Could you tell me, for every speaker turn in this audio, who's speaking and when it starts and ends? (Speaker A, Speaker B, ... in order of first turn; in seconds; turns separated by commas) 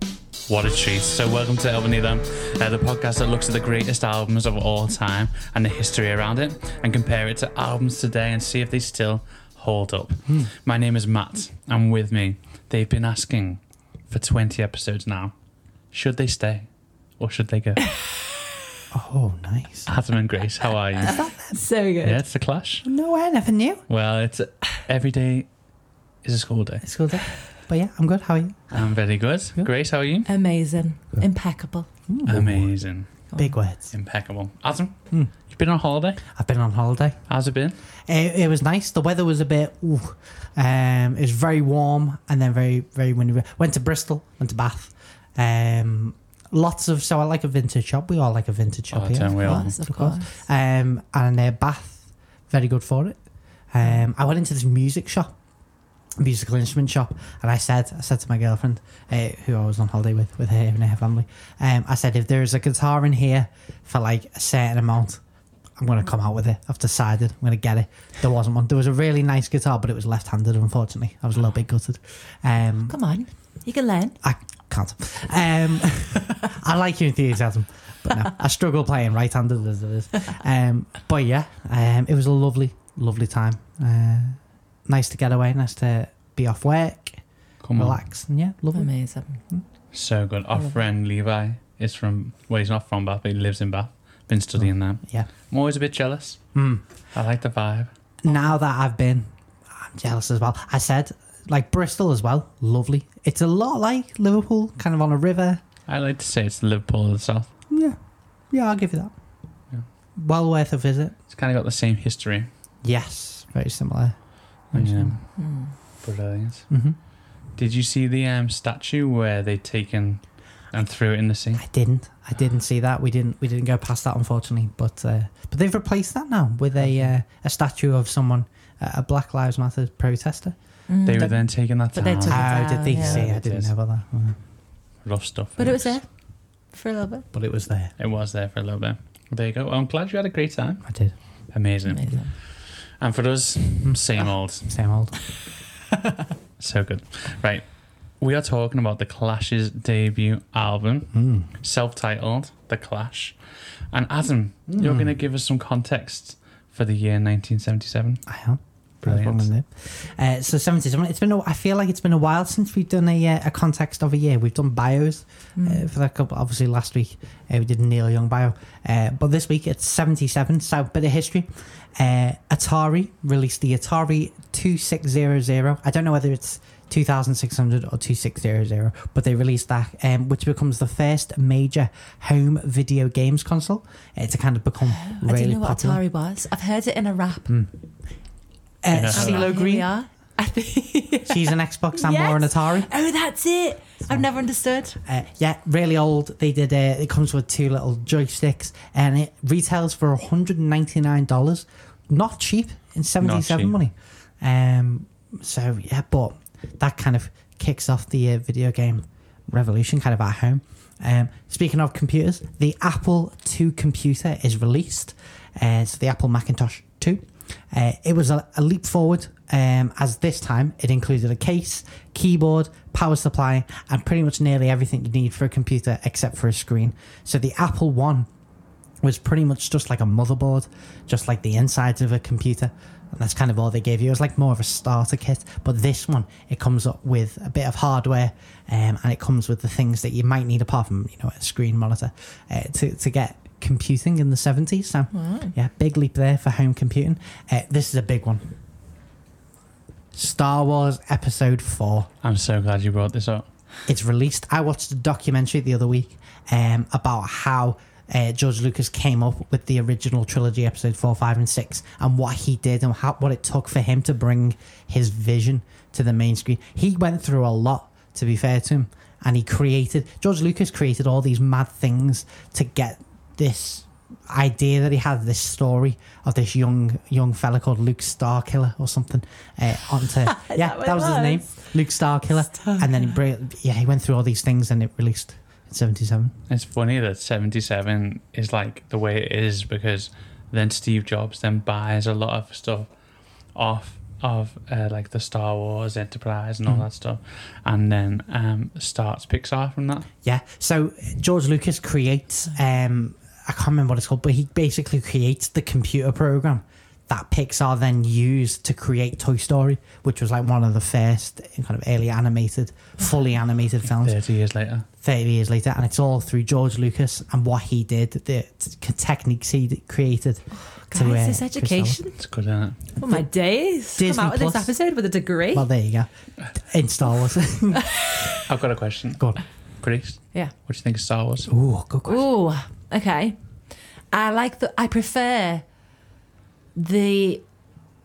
Speaker A: 0.5-15.3, Speaker A: 15.9-17.8, Speaker B: 18.9-19.9, Speaker A: 19.9-21.2, Speaker B: 21.0-21.6, Speaker C: 21.0-22.2, Speaker A: 22.0-22.9, Speaker B: 22.8-23.8, Speaker A: 23.9-25.5, Speaker A: 26.2-26.8, Speaker B: 26.8-28.7, Speaker A: 28.7-30.3, Speaker C: 30.2-31.9, Speaker B: 32.1-32.7, Speaker A: 32.2-33.2, Speaker B: 33.4-33.9, Speaker A: 33.9-36.2, Speaker B: 36.2-37.2, Speaker A: 37.3-37.8, Speaker B: 38.1-53.2, Speaker A: 48.9-49.7, Speaker C: 49.3-50.4, Speaker B: 53.7-55.3, Speaker B: 56.2-65.2, Speaker B: 65.8-73.0, Speaker C: 72.9-74.2, Speaker B: 74.2-87.2, Speaker A: 87.6-88.0, Speaker B: 87.8-88.9, Speaker C: 88.7-89.4, Speaker A: 89.9-96.4, Speaker B: 94.6-95.3, Speaker B: 96.5-96.8, Speaker A: 97.1-97.9, Speaker B: 98.2-105.6, Speaker A: 105.9-107.5, Speaker B: 107.7-108.0, Speaker B: 108.5-109.1, Speaker B: 110.2-111.1, Speaker A: 111.3-112.5, Speaker B: 112.8-114.2, Speaker B: 114.7-115.2, Speaker A: 114.7-115.3, Speaker C: 115.4-115.7, Speaker A: 116.0-116.7, Speaker B: 116.7-117.0, Speaker A: 117.5-121.6, Speaker B: 121.6-130.5, Speaker C: 130.9-133.3, Speaker A: 131.0-133.7, Speaker B: 132.3-134.4, Speaker A: 135.0-136.0, Speaker C: 135.6-137.3, Speaker B: 137.3-137.9, Speaker A: 138.0-140.9, Speaker B: 140.8-141.2, Speaker A: 141.5-144.7, Speaker C: 141.8-142.3, Speaker B: 143.8-145.2, Speaker A: 146.6-147.7, Speaker A: 148.2-153.3, Speaker B: 151.1-151.5, Speaker A: 153.9-158.2, Speaker B: 154.7-155.1, Speaker B: 158.3-186.0, Speaker A: 159.0-159.5, Speaker C: 165.6-165.9, Speaker C: 184.8-187.5, Speaker B: 188.8-189.9, Speaker A: 188.9-189.5, Speaker C: 189.1-195.0, Speaker B: 191.2-192.9, Speaker B: 195.0-228.3, Speaker A: 203.2-203.8, Speaker B: 229.0-248.5, Speaker C: 245.1-245.5, Speaker B: 250.1-252.1, Speaker A: 252.2-253.5, Speaker B: 253.9-286.3, Speaker C: 280.2-281.5, Speaker C: 282.5-283.1, Speaker A: 286.5-292.9, Speaker A: 293.5-300.1, Speaker B: 300.2-314.2, Speaker A: 313.9-314.9, Speaker B: 315.0-322.0, Speaker C: 320.9-322.1, Speaker A: 322.2-322.8, Speaker C: 323.0-325.7, Speaker B: 323.9-324.7, Speaker B: 325.5-328.0, Speaker C: 327.7-328.4, Speaker A: 328.5-329.3, Speaker A: 329.8-331.5, Speaker B: 331.5-332.2, Speaker C: 332.1-333.4, Speaker C: 334.1-335.6, Speaker C: 336.7-337.4